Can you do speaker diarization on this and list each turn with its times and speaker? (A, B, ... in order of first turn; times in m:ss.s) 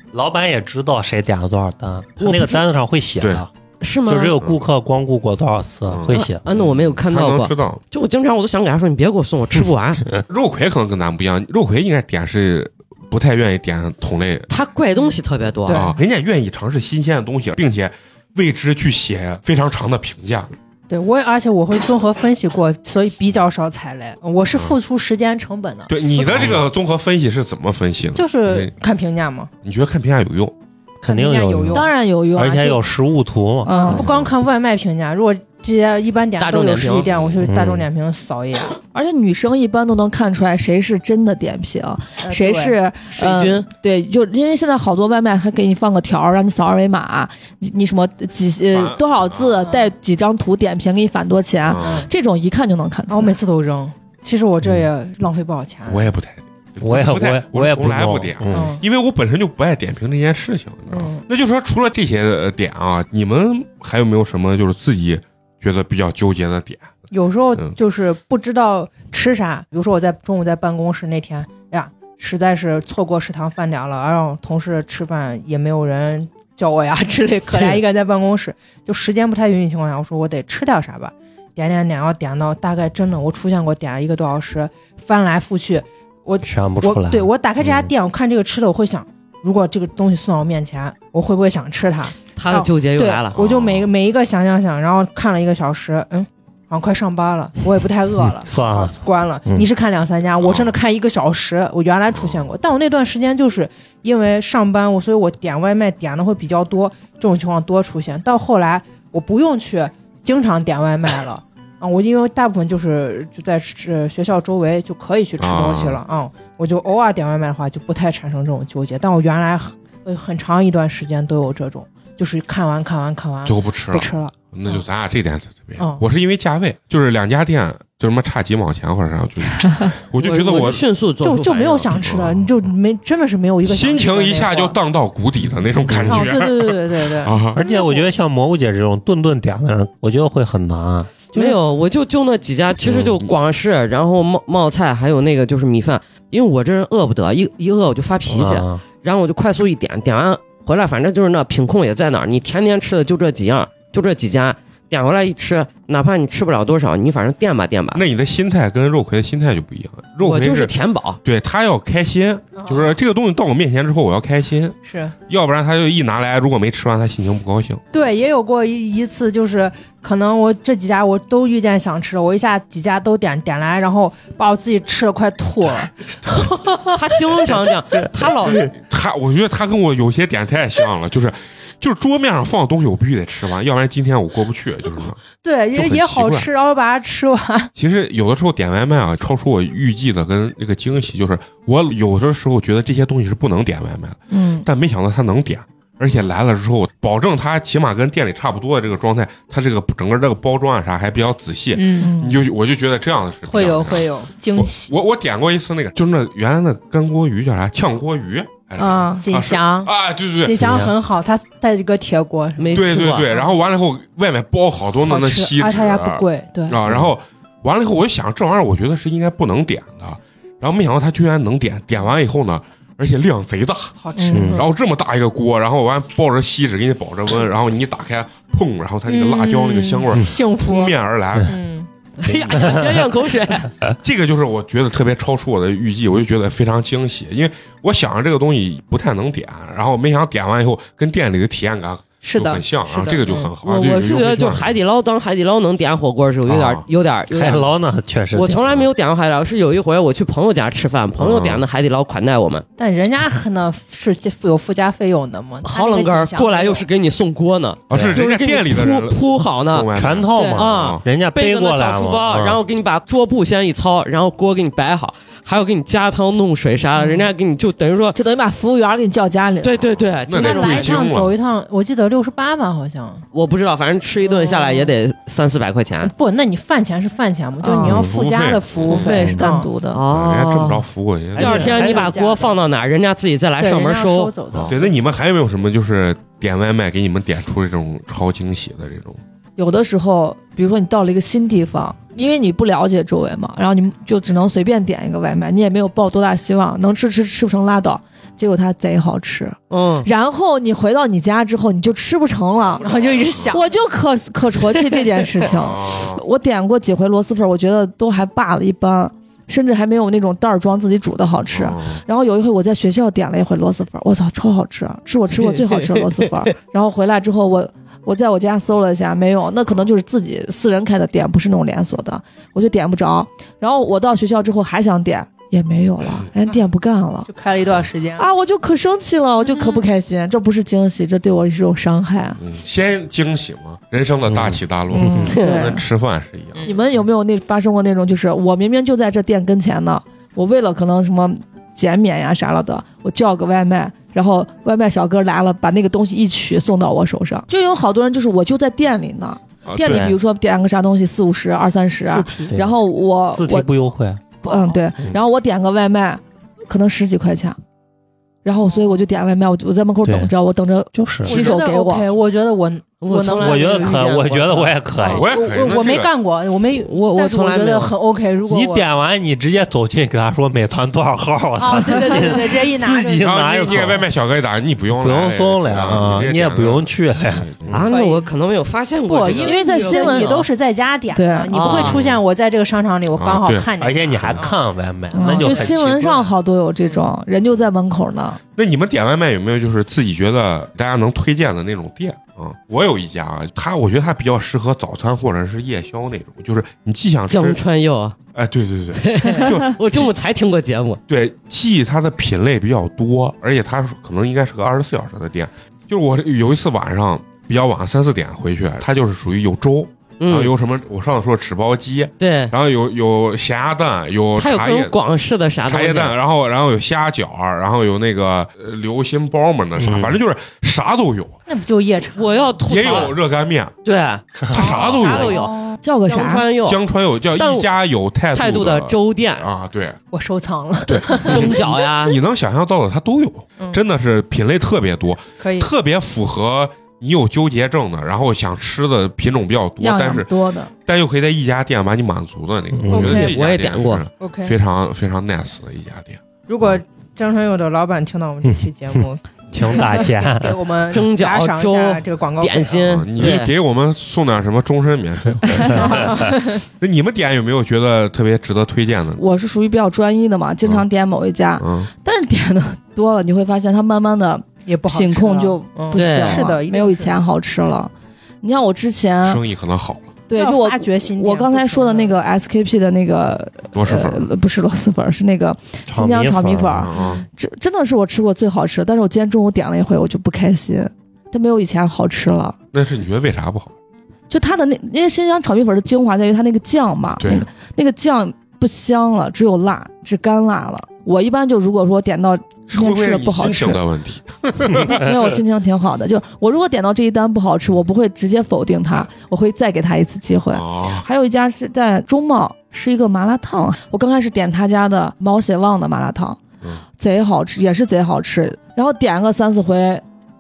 0:00.1-0:03.5 A
0:02.2-0:02.6 B
0:03.2-0:03.4 C
0:03.8-0:04.4 B
0:04.1-0:06.4 A
0:05.9-0:07.8 C
0:06.4-0:10.0 B
0:10.3-0:14.5 C
0:14.5-0:15.9 B
0:15.0-0:16.0 D
0:15.7-0:20.5 C
0:20.9-0:26.4 D
0:25.9-0:28.7 C
0:26.3-0:26.6 B
0:28.1-0:29.5 D
0:29.6-0:30.6 C
0:31.0-0:33.9 A
0:31.0-0:31.9 D
0:31.7-0:32.8 E
0:33.6-0:34.0 E
0:33.7-0:38.8 D
0:33.9-0:34.4 C
0:36.4-0:37.1 B
0:37.1-0:37.4 C
0:37.4-0:37.9 A
0:38.9-0:53.4 E
0:42.2-0:42.8 D
0:43.1-0:43.7 B
0:48.7-0:49.6 C
0:49.6-0:49.9 D
0:51.6-0:52.1 C
0:51.8-0:52.1 D
0:53.1-0:56.1 D
0:55.9-1:07.0 C
0:56.8-0:58.8 A
0:58.5-0:58.8 D
1:00.9-1:01.2 D
1:07.1-2:04.8 D
1:26.4-1:27.9 A
1:32.4-1:33.4 B
1:33.3-1:33.9 C
1:38.4-1:39.7 A
1:40.4-1:40.8 C
1:42.1-1:42.5 C
1:55.4-1:56.0 C
2:03.4-2:10.8 C
2:10.2-2:11.9 B
2:11.2-2:14.8 D
2:12.0-2:12.4 C
2:13.6-2:17.6 C
2:15.9-2:16.3 A
2:16.0-2:18.1 D
2:17.5-2:21.2 A
2:21.3-2:38.0 B
2:22.8-2:23.3 C
2:28.3-2:28.8 A
2:37.9-2:44.8 C
2:40.2-2:41.2 B
2:42.6-2:42.9 D
2:44.8-2:45.2 D
2:45.3-2:47.8 C
2:47.9-2:57.6 D
2:56.9-2:58.7 B
2:58.5-3:05.2 C
3:05.4-3:07.7 D
3:05.7-3:06.5 C
3:07.8-3:30.9 C
3:14.3-3:14.7 E
3:21.7-3:22.1 D
3:22.0-3:22.4 E
3:23.5-3:24.9 D
3:28.8-3:29.2 E
3:29.2-3:33.5 D
3:30.6-3:30.9 A
3:32.6-3:33.3 B
3:32.7-3:51.6 C
3:35.1-3:36.8 D
3:44.0-3:44.7 D
3:44.3-3:44.6 A
3:49.1-3:51.9 D
3:52.2-3:53.7 B
3:52.5-3:52.8 C
3:52.5-3:52.8 A
3:54.0-4:04.8 C
4:02.2-4:03.5 D
4:03.1-4:07.7 B
4:06.5-4:06.8 C
4:07.3-4:08.9 A
4:08.3-4:12.6 B
4:11.2-4:11.6 C
4:12.8-4:16.9 D
4:15.6-4:19.9 B
4:17.9-4:21.0 C
4:17.9-4:18.2 A
4:20.0-4:22.6 A
4:20.4-4:28.2 B
4:27.0-4:27.3 D
4:28.2-4:29.9 E
4:29.6-4:31.0 B
4:30.2-4:31.4 C
4:30.4-4:33.2 D
4:33.3-4:36.1 B
4:34.2-4:34.9 D
4:36.0-4:39.7 D
4:37.6-4:38.0 E
4:37.8-4:39.1 C
4:38.9-4:40.0 E
4:38.9-4:40.8 B
4:40.1-4:41.8 C
4:41.4-4:44.3 B
4:41.4-4:42.1 A
4:41.4-4:42.6 D
4:43.6-4:45.0 D
4:44.5-4:49.2 C
4:49.6-5:02.9 E
4:59.7-5:00.1 B
5:02.8-5:03.7 D
5:03.2-5:03.6 C
5:03.5-5:27.3 E
5:05.4-5:06.2 C
5:11.5-5:12.0 C
5:15.3-5:16.5 B
5:27.3-5:28.3 D
5:28.2-5:32.4 E
5:32.4-5:36.7 C
5:34.3-5:35.3 A
5:34.9-5:35.8 E
5:35.3-5:35.6 B
5:35.4-5:35.7 D
5:36.6-5:36.8 D
5:36.6-5:53.7 E
5:49.7-5:50.2 C
5:49.9-5:50.2 A
5:52.1-5:52.6 D
5:52.5-5:52.8 A
5:53.3-5:54.2 A
5:54.4-5:57.6 E
5:54.4-5:54.8 D
5:58.4-6:02.1 E
6:00.0-6:00.3 A
6:01.0-6:01.4 A
6:01.2-6:08.9 D
6:03.0-6:04.7 B
6:03.4-6:05.3 A
6:05.0-6:06.1 C
6:06.8-6:08.0 B
6:08.5-6:14.1 A
6:11.6-6:13.9 D
6:13.2-6:17.7 C
6:15.0-6:17.8 A
6:17.7-6:20.5 B
6:17.9-6:18.3 D
6:19.1-6:24.6 D
6:19.4-6:20.5 E
6:21.1-6:21.9 E
6:21.5-6:22.0 B
6:21.7-6:22.2 C
6:23.2-6:24.5 C
6:23.8-6:26.3 A
6:25.1-6:25.8 D
6:25.1-6:28.4 E
6:28.6-6:37.6 C
6:37.3-6:38.2 B
6:38.3-6:40.1 C
6:39.0-6:41.0 B
6:41.1-6:55.0 C
6:50.2-6:50.5 B
6:52.2-6:52.5 B
6:54.4-6:56.1 B
6:55.7-7:01.4 C
6:59.8-7:00.2 A
7:01.5-7:03.1 D
7:02.2-7:03.2 B
7:02.6-7:03.7 C
7:03.8-7:06.8 B
7:04.5-7:05.4 C
7:04.5-7:05.8 D
7:05.8-7:06.5 E
7:06.6-7:10.0 C
7:07.4-7:07.7 B
7:08.3-7:09.5 B
7:10.1-7:11.7 D
7:10.8-7:20.3 C
7:11.2-7:12.2 B
7:15.4-7:15.7 D
7:19.8-7:20.7 E
7:20.8-7:26.8 C
7:22.7-7:23.3 A
7:22.9-7:23.4 D
7:23.0-7:24.0 B
7:24.2-7:24.6 D
7:26.5-7:33.4 D
7:29.5-7:30.6 A
7:30.9-7:33.5 B
7:32.8-7:39.2 C
7:35.5-7:36.6 D
7:39.2-7:49.4 E
7:41.6-7:41.9 C
7:44.7-7:47.2 D
7:45.9-7:46.5 B
7:49.2-7:50.2 C
7:50.3-8:02.6 E
7:50.3-7:52.2 D
7:53.7-7:54.3 C
7:55.9-7:56.9 A
7:56.8-7:57.2 C
7:56.9-7:57.2 D
8:02.7-8:03.8 C
8:04.3-8:13.8 E
8:07.2-8:07.5 C
8:12.7-8:15.0 C
8:14.7-8:26.4 E
8:20.5-8:21.1 C
8:27.0-8:30.0 E